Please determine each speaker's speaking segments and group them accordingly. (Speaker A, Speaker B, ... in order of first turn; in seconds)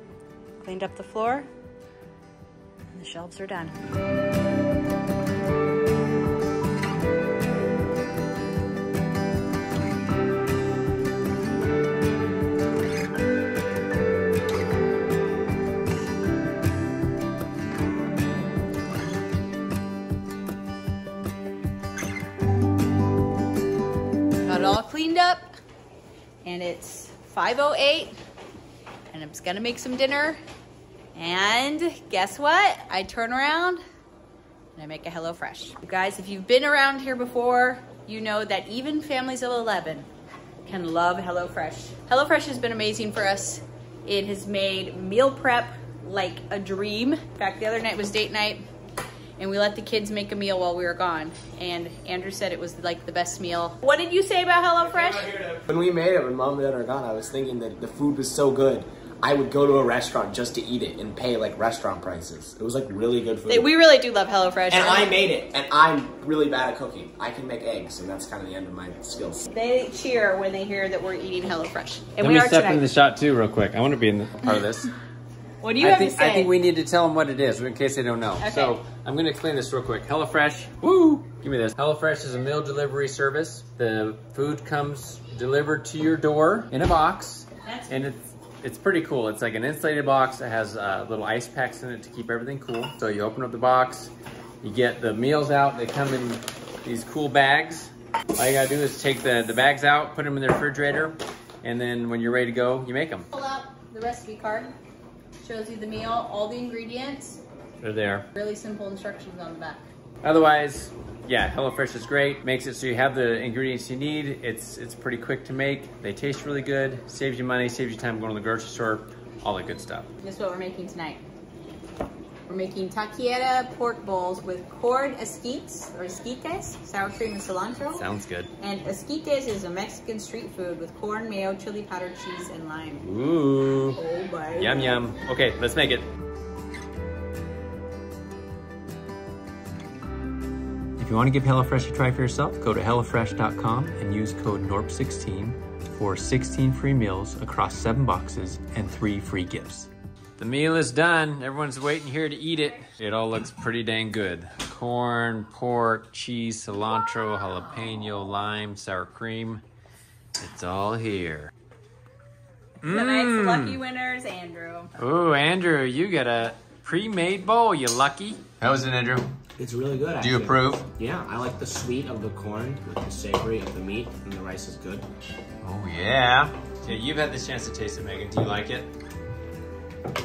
Speaker A: 0.6-1.5, 2.9-3.8, 24.4-25.5, 26.4-28.1, 29.1-30.4, 31.1-33.8, 34.7-40.1, 40.6-48.6, 49.4-55.3, 63.5-65.1, 69.5-72.8, 75.6-76.5, 78.4-78.8, 87.6-87.9, 103.3-104.7, 105.4-107.4, 108.3-109.9, 120.2-121.2, 122.5-128.1, 128.6-133.1, 133.9-135.0, 162.8-164.9
Speaker B: 55.2-63.7, 64.7-69.5, 169.6-175.1
Speaker C: 72.2-74.9, 75.8-94.1, 94.6-103.3, 107.8-108.3, 110.2-120.1, 127.9-128.5, 133.0-134.0, 134.5-136.1, 141.0-159.6, 160.4-161.5, 162.8-163.8, 165.0-169.2, 170.2-170.8, 175.6-178.9